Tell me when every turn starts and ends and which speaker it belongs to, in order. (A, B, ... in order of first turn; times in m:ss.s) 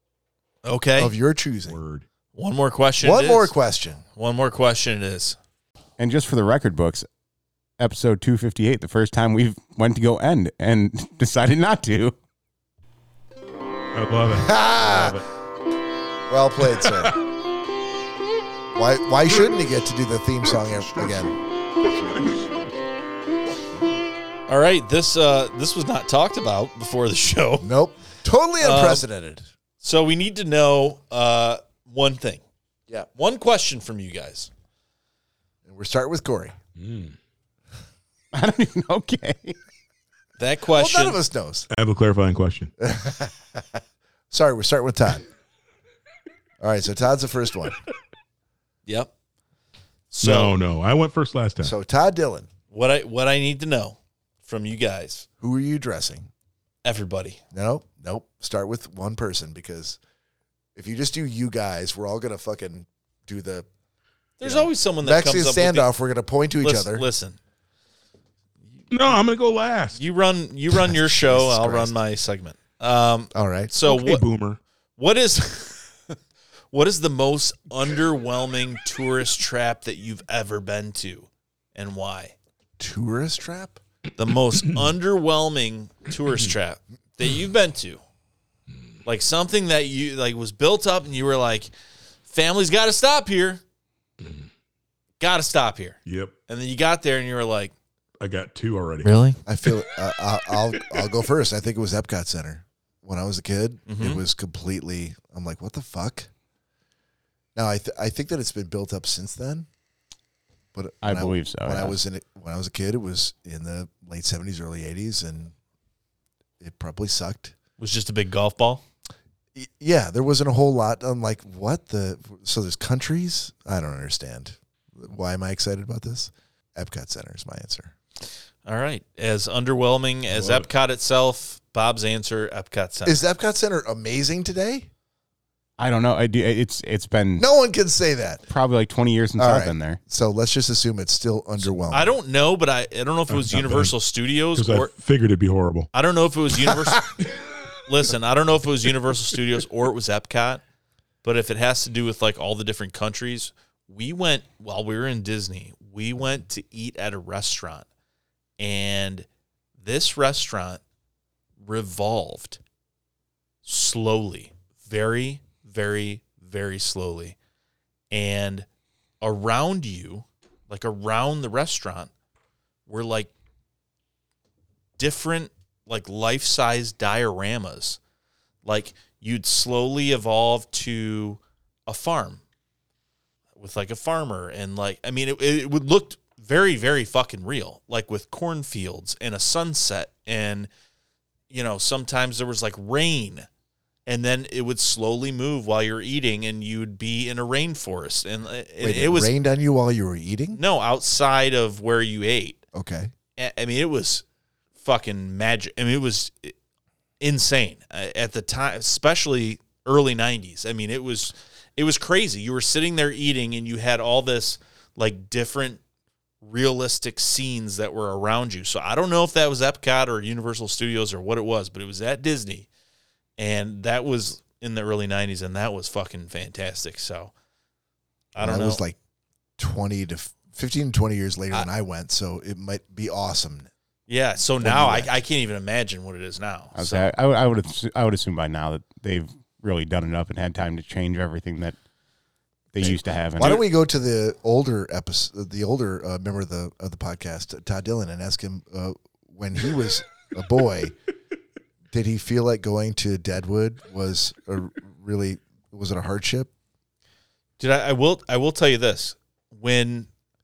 0:00.6-0:01.1 A
0:01.0-0:01.8 B
0:01.7-0:02.0 C
0:02.4-0:03.5 A
0:03.0-0:04.0 B
0:04.2-0:05.4 A
0:06.0-0:07.1 D
0:07.8-0:12.2 D
0:13.9-0:15.3 C
0:14.3-0:15.2 B
0:16.3-0:17.1 B
0:18.7-0:21.3 B
0:24.5-0:27.7 A
0:27.6-0:29.4 B
0:28.6-0:29.0 A
0:29.8-0:32.4 A
0:33.2-0:34.5 A
0:35.6-0:36.6 B
0:36.8-0:37.2 C
0:38.3-0:39.6 D
0:40.4-0:41.2 A
0:40.7-0:41.7 B
0:41.7-0:42.7 C
0:42.8-0:43.8 B
0:44.3-0:45.2 B
0:46.6-0:47.8 B
0:50.1-0:50.6 A
0:50.2-0:51.7 C
0:51.6-0:52.5 B
0:52.7-0:55.2 A
0:55.4-0:56.3 B
0:56.8-0:57.4 A
0:57.5-1:00.0 B
1:00.8-1:03.7 B
1:04.4-1:05.9 A
1:04.4-1:07.1 B
1:06.6-1:07.4 A
1:08.9-1:10.0 C
1:10.0-1:14.2 A
1:10.9-1:12.0 B
1:13.3-1:13.7 B
1:13.8-1:14.6 C
1:15.0-1:16.2 A
1:16.7-1:22.4 A
1:22.8-1:23.8 B
1:24.2-1:28.0 A
1:29.0-1:31.7 A
1:32.3-1:33.6 A
1:34.2-1:34.5 C
1:35.2-1:37.7 A
1:36.1-1:36.3 C
1:38.2-1:39.1 C
1:39.0-1:39.4 A
1:39.4-1:46.3 B
1:43.9-1:44.2 A
1:47.6-1:49.7 B
1:50.7-1:55.5 B
1:51.0-1:52.0 D
1:56.6-1:57.5 B
1:57.8-1:58.8 A
1:59.6-2:07.9 B
2:08.7-2:13.2 A
2:10.3-2:10.7 C
2:13.0-2:14.9 B
2:15.8-2:17.5 D
2:17.4-2:18.4 B
2:18.5-2:20.0 D
2:19.4-2:22.1 B
2:21.9-2:24.9 A
2:23.3-2:23.9 C
2:24.6-2:25.9 C
2:25.9-2:27.1 A
2:26.7-2:27.0 B
2:27.9-2:30.6 A
2:31.2-2:37.9 A
2:38.6-2:39.3 A
2:39.8-2:40.8 A
2:41.6-2:42.6 A
2:43.6-2:47.4 A
2:48.1-2:48.7 A
2:49.2-2:52.1 A
2:52.9-2:53.3 A
2:55.0-2:58.0 A
2:58.6-3:02.4 A
3:03.6-3:10.7 A
3:11.5-3:13.5 A
3:14.1-3:19.3 A
3:18.8-3:20.6 B
3:20.6-3:22.6 A
3:22.7-3:23.1 B
3:23.4-3:24.2 A
3:24.8-3:26.6 A
3:27.2-3:35.8 A
3:36.4-3:42.7 A
3:43.4-3:47.3 A
3:48.4-3:48.8 A
3:48.4-3:49.0 B
3:49.6-3:53.7 B
3:54.1-3:57.1 A
3:54.6-3:55.1 B
3:56.8-4:01.8 D
4:02.7-4:03.7 D
4:02.8-4:10.9 B
4:11.9-4:16.5 B
4:17.6-4:20.1 A